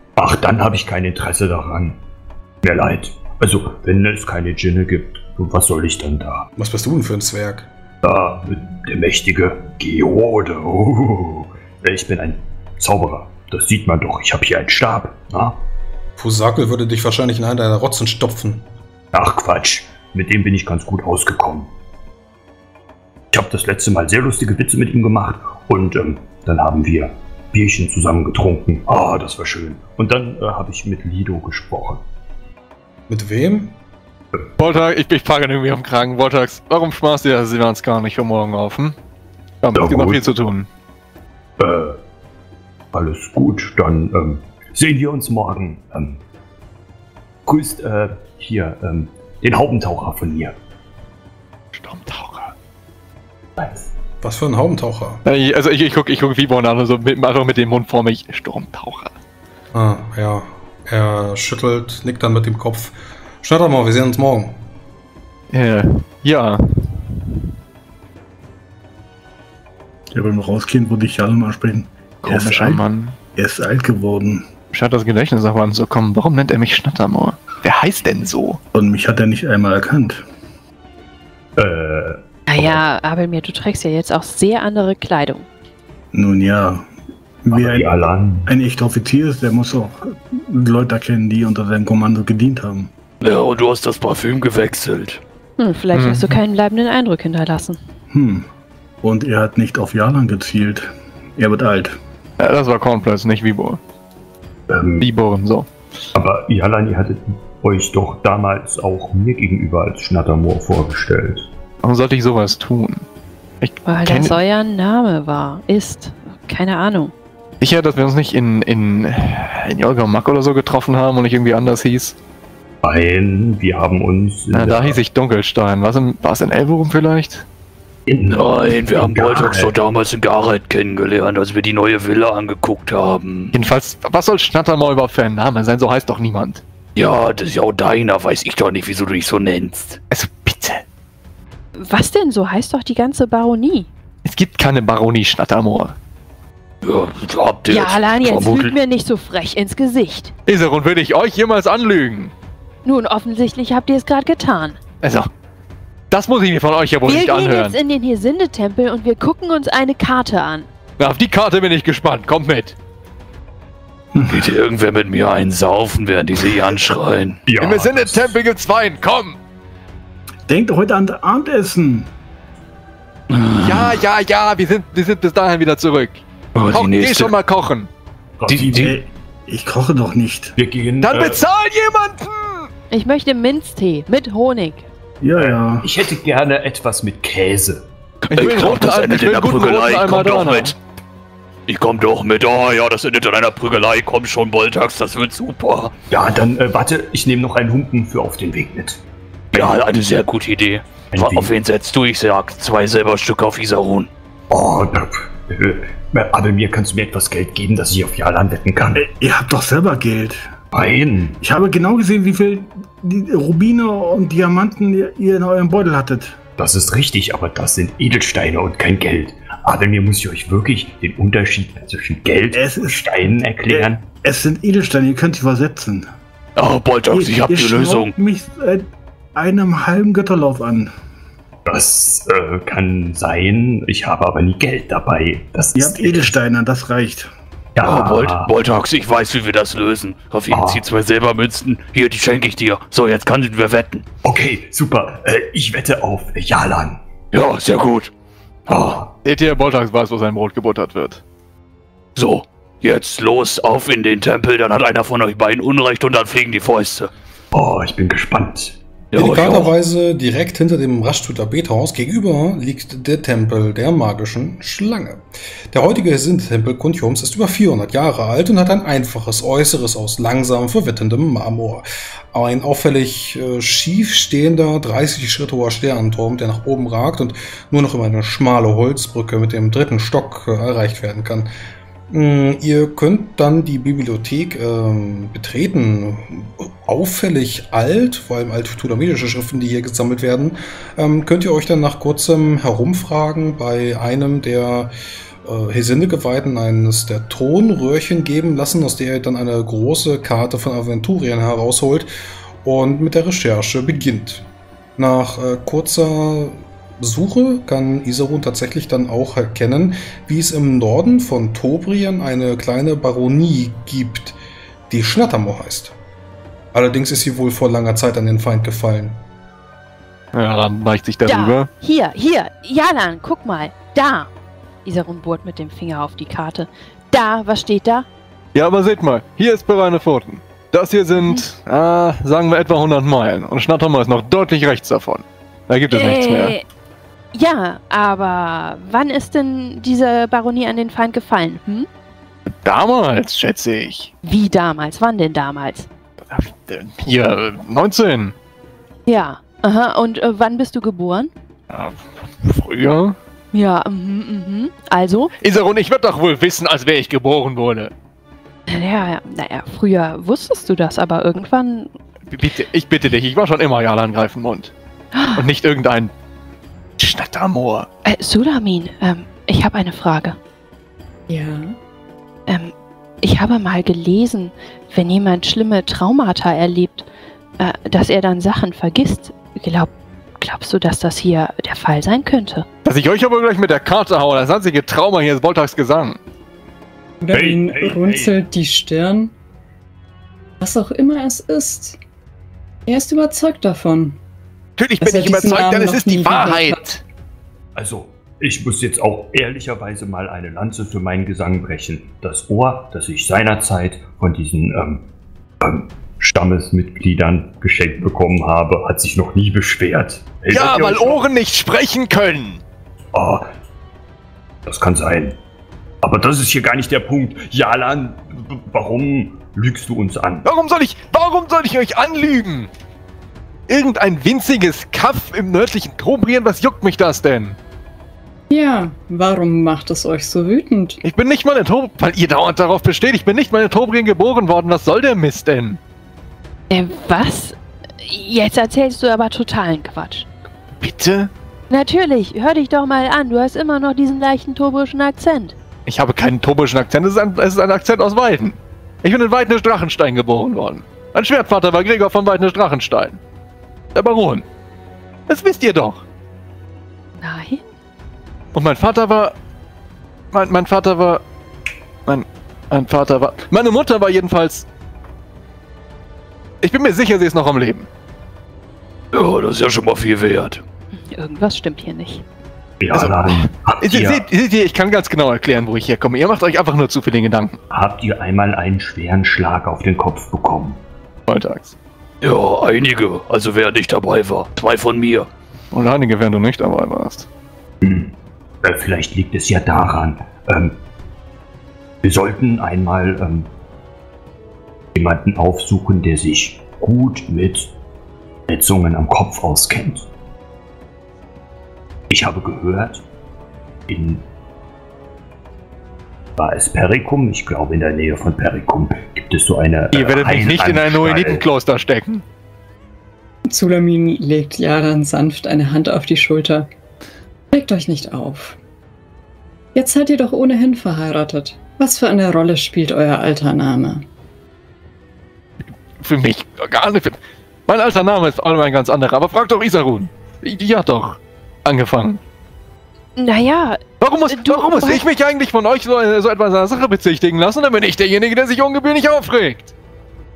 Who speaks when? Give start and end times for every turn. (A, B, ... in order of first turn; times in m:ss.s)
0:00.2-0:02.0 A
0:02.6-0:06.5 A
0:06.6-0:07.7 B
0:08.0-0:15.6 A
0:16.2-0:18.7 B
0:19.1-0:21.7 A
0:23.3-0:32.0 A
0:33.1-0:33.8 B
0:34.6-0:39.0 C
0:39.6-0:40.7 C
0:39.7-0:40.2 A
0:41.6-0:42.0 A
0:42.9-0:46.2 A
0:47.4-0:50.6 A
0:51.7-0:52.5 C
0:53.6-0:53.9 A
0:54.2-0:55.2 B
0:55.2-0:59.1 C
0:59.7-1:04.6 B
1:05.5-1:07.2 C
1:10.1-1:12.8 D
1:12.2-1:13.2 C
1:13.4-1:14.5 D
1:14.7-1:18.6 C
1:18.7-1:20.2 D
1:21.6-1:22.8 A
1:22.5-1:25.4 E
1:26.1-1:26.9 D
1:27.4-1:27.9 D
1:27.5-1:28.5 A
1:28.4-1:32.9 D
1:33.2-1:35.2 F
1:35.6-1:37.8 E
1:35.9-1:36.4 C
1:38.1-1:38.5 D
1:39.0-1:42.0 D
1:42.4-1:43.8 C
1:44.7-1:45.1 A
1:45.0-1:45.7 C
1:46.1-1:51.5 A
1:51.8-1:53.0 C
1:53.6-1:54.4 C
1:53.8-1:57.1 E
1:57.6-2:02.2 C
2:02.8-2:05.0 A
2:04.5-2:07.4 C
2:08.1-2:09.7 A
2:08.3-2:13.5 F
2:13.5-2:16.6 C
2:17.0-2:20.0 F
2:20.1-2:20.8 C
2:21.8-2:23.9 E
2:24.2-2:25.9 C
2:26.8-2:28.7 F
2:27.7-2:30.3 E
2:30.4-2:32.3 C
2:32.8-2:34.8 E
2:35.0-2:35.3 C
2:36.1-2:37.8 C
2:37.0-2:40.7 E
2:41.0-2:42.7 C
2:44.1-2:44.5 D
2:44.2-2:47.4 F
2:47.5-2:48.4 A
2:47.6-2:49.4 C
2:50.5-2:52.1 D
2:53.3-2:54.0 F
2:53.6-2:57.9 C
2:56.6-2:57.3 F
2:58.4-2:58.9 A
2:58.5-2:58.9 F
2:58.5-3:00.5 D
3:00.6-3:01.4 A
3:01.0-3:02.7 C
3:02.9-3:04.8 E
3:05.2-3:05.9 D
3:05.3-3:07.9 A
3:08.2-3:10.7 F
3:08.3-3:10.8 C
3:11.7-3:15.9 F
3:16.1-3:19.0 A
3:19.5-3:19.8 A
3:19.5-3:24.1 F
3:21.1-3:21.5 A
3:24.5-3:29.0 A
3:29.0-3:30.5 D
3:30.7-3:31.4 A
3:31.4-3:36.4 D
3:36.6-3:44.0 A
3:42.5-3:46.1 D
3:46.6-3:48.1 F
3:47.1-3:50.9 D
3:51.6-3:56.3 A
3:55.7-3:57.3 D
3:57.7-3:58.5 A
3:57.8-4:04.0 F
4:00.5-4:00.8 A
4:04.2-4:07.0 A
4:07.3-4:08.1 F
4:08.7-4:09.1 A
4:09.2-4:11.2 C
4:12.2-4:17.1 F
4:17.5-4:18.8 A
4:19.1-4:19.7 F
4:19.1-4:41.5 B
4:42.1-4:54.9 B
4:55.4-5:02.1 B
5:02.6-5:04.4 B
5:05.0-5:14.4 B
5:14.9-5:15.9 B
5:16.7-5:19.2 B
5:20.3-5:21.7 C
5:21.2-5:24.3 E
5:24.8-5:28.0 E
5:28.5-5:36.5 C
5:31.2-5:31.4 E
5:35.9-5:36.6 E
5:37.3-5:41.9 E
5:42.6-5:44.1 C
5:44.2-5:45.9 E
5:46.2-5:48.3 C
5:49.1-5:51.3 E
5:51.7-5:53.2 C
5:53.5-5:55.3 E
5:55.4-5:57.9 C
5:58.7-6:01.9 E
6:02.3-6:04.7 C
6:05.1-6:05.5 E
6:05.4-6:06.1 C
6:07.0-6:07.9 C
6:08.0-6:10.4 E
6:11.3-6:11.7 G
6:12.5-6:17.1 E
6:17.6-6:22.6 E
6:22.8-6:26.2 C
6:27.2-6:29.3 G
6:27.3-6:28.4 A
6:30.6-6:32.0 G
6:32.9-6:34.2 G
6:34.8-6:37.0 C
6:35.0-6:37.0 G
6:37.8-6:45.1 A
6:45.6-6:51.2 A
6:50.5-6:52.6 C
6:53.1-6:53.5 A
6:54.6-6:55.4 A
6:56.0-7:00.5 A
7:00.4-7:02.7 C
7:03.7-7:07.6 C
7:08.5-7:11.0 G
7:11.0-7:15.8 C
7:16.7-7:20.3 E
7:20.8-7:21.3 C
7:21.7-7:25.5 E
7:25.8-7:33.2 C
7:33.9-7:34.4 C
7:35.3-7:36.0 C
7:37.2-7:37.6 E
7:38.5-7:39.3 C
7:40.3-7:41.2 C
7:42.0-7:44.7 C
7:46.6-7:47.9 C
7:49.1-7:50.6 F
7:51.1-7:52.2 E
7:52.8-7:54.2 A
7:52.9-7:57.6 C
7:57.7-8:00.8 A
8:01.3-8:01.7 C
8:02.2-8:05.3 F
8:05.7-8:07.3 C
8:07.8-8:10.8 A
8:12.0-8:13.5 A
8:14.9-8:17.7 A
8:18.5-8:20.1 A
8:22.1-8:23.0 A
8:23.9-8:24.2 A
8:26.4-8:31.4 A
8:29.9-8:32.2 C
8:33.5-8:36.7 G
8:37.5-8:38.6 G
8:39.7-8:44.0 G
8:46.0-8:52.2 C
8:53.2-8:55.0 E
8:54.0-8:59.7 C